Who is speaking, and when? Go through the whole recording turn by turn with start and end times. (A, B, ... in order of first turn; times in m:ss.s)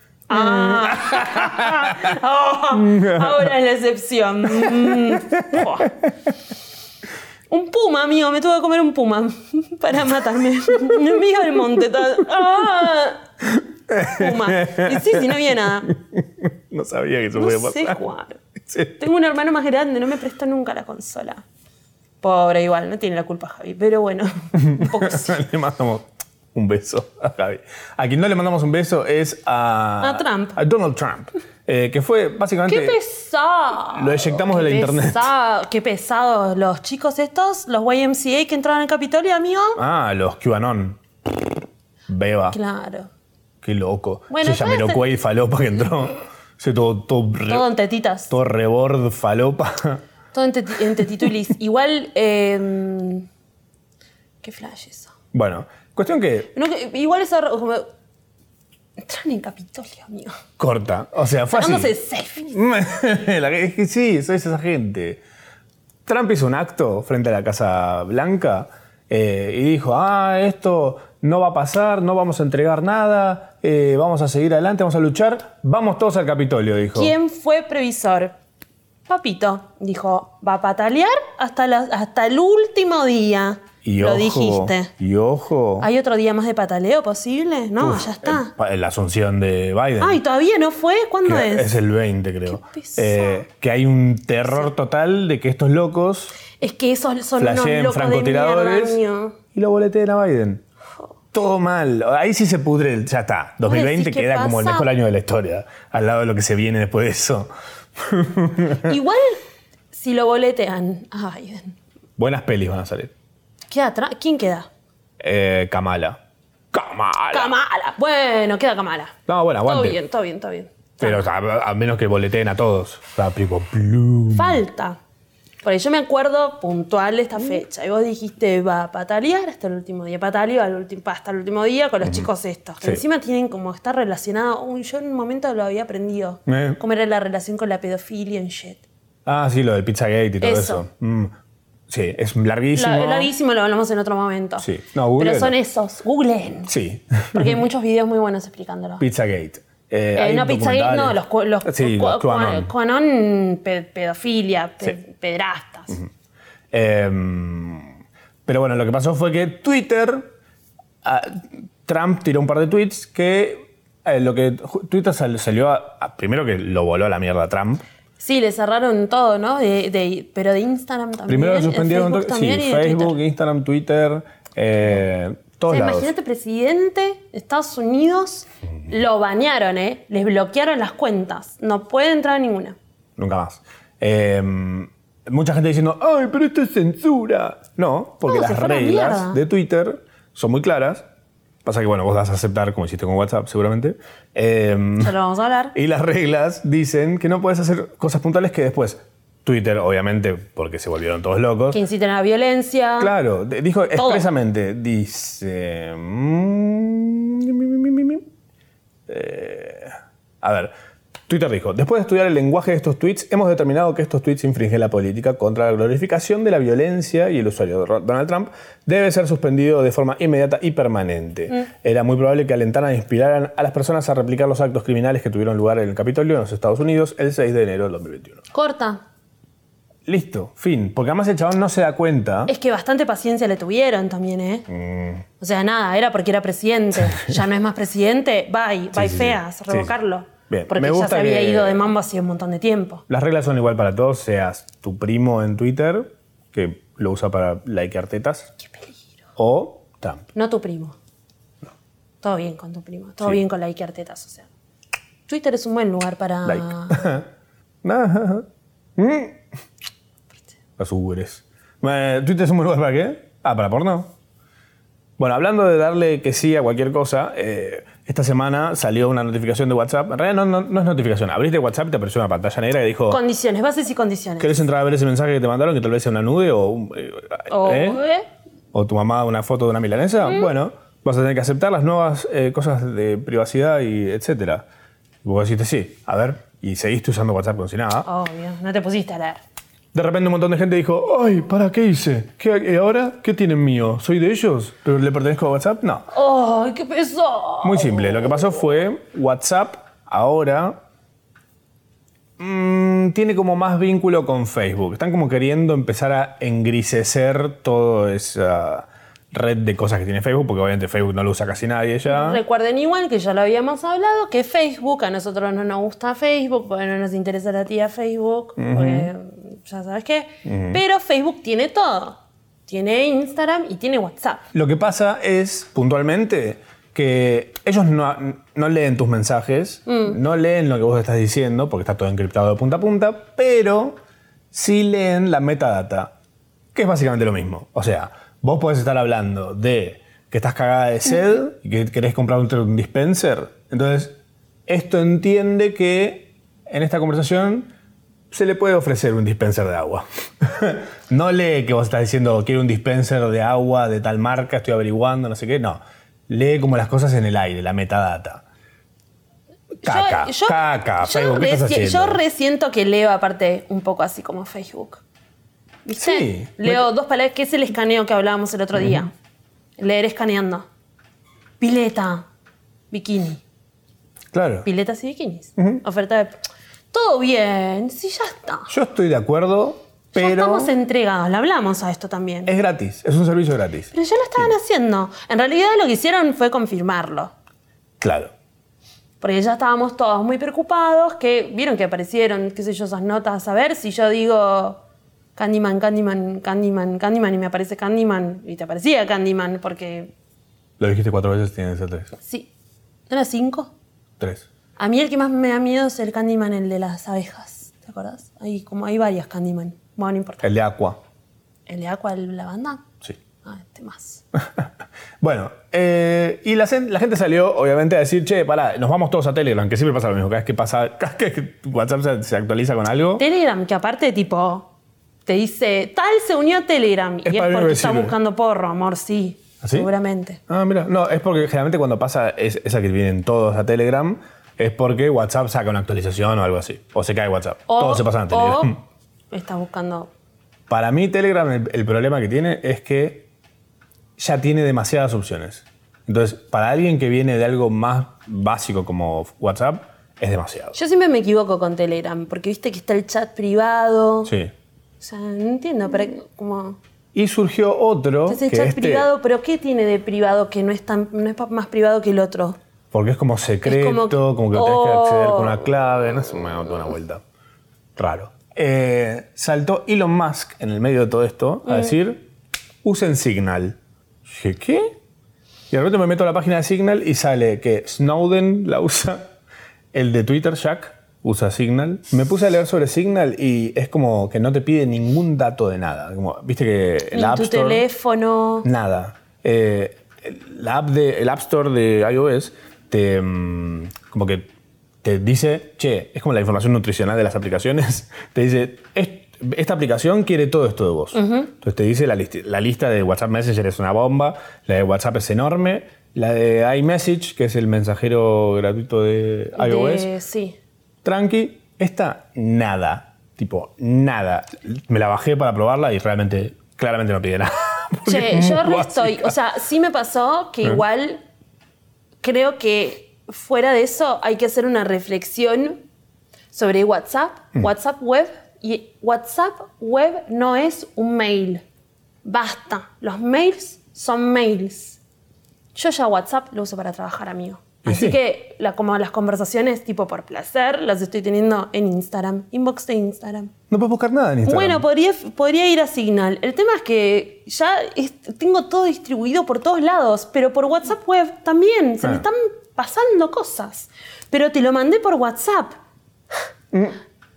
0:00.3-0:06.0 A
0:00.3-0:02.2 B
0:02.7-0:03.5 B
0:04.5-0:06.1 B
0:07.5-0:13.2 A
0:13.4-0:18.0 B
0:14.0-0:15.9 A
0:17.4-0:18.4 A
0:18.6-0:19.0 B
0:19.0-0:21.4 A
0:22.2-0:25.4 A
0:24.6-0:33.0 B
0:30.0-0:30.6 A
0:32.6-0:39.8 A
0:33.8-0:35.3 B
0:39.8-0:41.0 B
0:42.1-0:42.6 B
0:42.5-0:43.1 A
0:43.6-0:47.7 B
0:44.3-0:45.0 A
0:47.5-0:48.3 A
0:48.3-0:50.0 B
0:50.3-0:53.3 A
0:54.4-0:55.1 A
0:55.3-0:56.5 B
0:56.5-0:57.9 A
0:59.0-1:00.4 A
1:00.6-1:05.2 B
1:01.5-1:02.5 A
1:06.1-1:17.1 B
1:17.0-1:18.3 A
1:19.1-1:24.9 A
1:23.8-1:25.9 B
1:25.8-1:28.5 A
1:27.8-1:30.2 B
1:30.0-1:31.8 A
1:31.2-1:36.4 B
1:32.5-1:33.4 A
1:36.6-1:39.4 A
1:37.4-1:39.0 B
1:39.5-1:40.6 B
1:41.3-1:49.0 B
1:43.6-1:44.9 A
1:48.8-1:49.4 A
1:49.9-1:51.8 A
1:52.2-1:53.1 B
1:53.7-1:54.7 A
1:55.2-1:56.2 B
1:56.7-1:57.5 B
1:57.3-2:01.2 A
1:59.3-2:00.0 B
2:01.0-2:04.6 B
2:04.3-2:05.0 A
2:05.6-2:18.8 A
2:16.5-2:16.8 B
2:19.3-2:21.3 B
2:20.4-2:20.9 A
2:21.9-2:23.3 B
2:22.7-2:26.7 A
2:24.6-2:25.6 B
2:26.7-2:27.6 B
2:27.3-2:29.0 A
2:29.0-2:32.7 B
2:30.2-2:36.0 A
2:36.7-2:38.0 B
2:38.5-2:40.3 B
2:41.0-2:47.8 B
2:48.2-2:53.2 A
2:51.3-2:56.1 B
2:55.7-3:02.8 A
3:03.2-3:11.0 B
3:08.2-3:09.4 A
3:11.6-3:15.2 B
3:15.0-3:15.8 A
3:15.7-3:21.8 B
3:21.7-3:23.1 A
3:23.0-3:28.2 B
3:24.0-3:24.3 A
3:29.1-3:30.7 B
3:31.3-3:48.4 B
3:48.5-3:49.0 A
3:50.1-3:52.5 B
3:52.5-3:54.7 A
3:54.7-3:55.2 B
3:55.4-4:03.0 A
3:57.1-3:57.4 B
3:58.9-3:59.9 B
4:00.5-4:01.9 B
4:03.1-4:08.5 B
4:09.4-4:10.3 B
4:10.4-4:11.0 A
4:12.2-4:14.5 A
4:15.3-4:17.0 A
4:16.4-4:17.3 B
4:17.8-4:19.4 B
4:20.8-4:24.1 B
4:25.2-4:33.2 B
4:33.1-4:34.6 A
4:34.4-4:38.0 B
4:37.5-4:38.3 A
4:38.7-4:44.6 B
4:40.2-4:40.5 A
4:45.2-4:48.1 B
4:48.0-4:49.4 A
4:49.9-4:56.1 B
4:56.1-4:58.5 A
4:57.6-5:00.8 B
5:02.4-5:12.4 B
5:12.1-5:24.4 A
5:18.6-5:19.1 B
5:20.4-5:20.8 B
5:24.5-5:34.0 B
5:29.9-5:30.2 A
5:34.5-5:36.1 B
5:36.7-5:47.7 B
5:48.3-5:58.4 B
5:59.8-6:02.2 B
5:59.8-6:05.0 A
6:05.9-6:09.1 A
6:06.0-6:06.9 B
6:08.8-6:09.0 B
6:09.8-6:10.6 A
6:11.6-6:12.3 A
6:12.9-6:13.4 A
6:14.3-6:14.7 B
6:14.6-6:16.4 A
6:15.6-6:15.8 B
6:16.9-6:18.7 A
6:18.7-6:20.7 B
6:20.1-6:22.5 A
6:22.5-6:24.5 B
6:23.9-6:27.3 A
6:28.0-6:28.3 B
6:29.2-6:34.8 A
6:35.4-6:40.1 A
6:40.8-6:42.1 B
6:42.2-6:42.5 A
6:43.1-6:43.7 A
6:44.2-6:44.5 B
6:44.8-6:50.5 A
6:50.4-6:51.0 B
6:51.7-6:52.8 A
6:53.4-6:54.2 A
6:54.4-6:54.7 B
6:55.2-7:03.2 B
7:03.2-7:04.7 A
7:05.3-7:10.4 A
7:07.2-7:08.2 B
7:09.6-7:09.9 B
7:10.5-7:18.7 B
7:17.7-7:18.8 A
7:19.3-7:20.1 A
7:20.7-7:23.3 B
7:24.2-7:30.8 B
7:30.7-7:34.3 A
7:34.3-7:34.5 B
7:35.0-7:36.8 A
7:37.1-7:39.1 B
7:38.3-7:42.6 A
7:42.9-7:47.2 B
7:43.6-7:45.6 A
7:48.0-7:52.3 B
7:51.6-7:51.9 A
7:52.8-7:54.9 B
7:55.7-7:59.3 B
7:59.9-8:07.8 B
8:07.1-8:08.7 A
8:08.6-8:14.5 B
8:15.0-8:30.1 B
8:21.1-8:21.5 A
8:29.6-8:30.6 A
8:31.0-8:39.4 B
8:38.0-8:41.2 A
8:42.2-8:45.8 A
8:46.5-8:51.6 A
8:52.2-8:55.0 A
8:55.8-9:03.5 A
8:57.8-8:58.2 B
9:03.7-9:04.8 B
9:04.4-9:15.8 A
9:16.7-9:17.0 B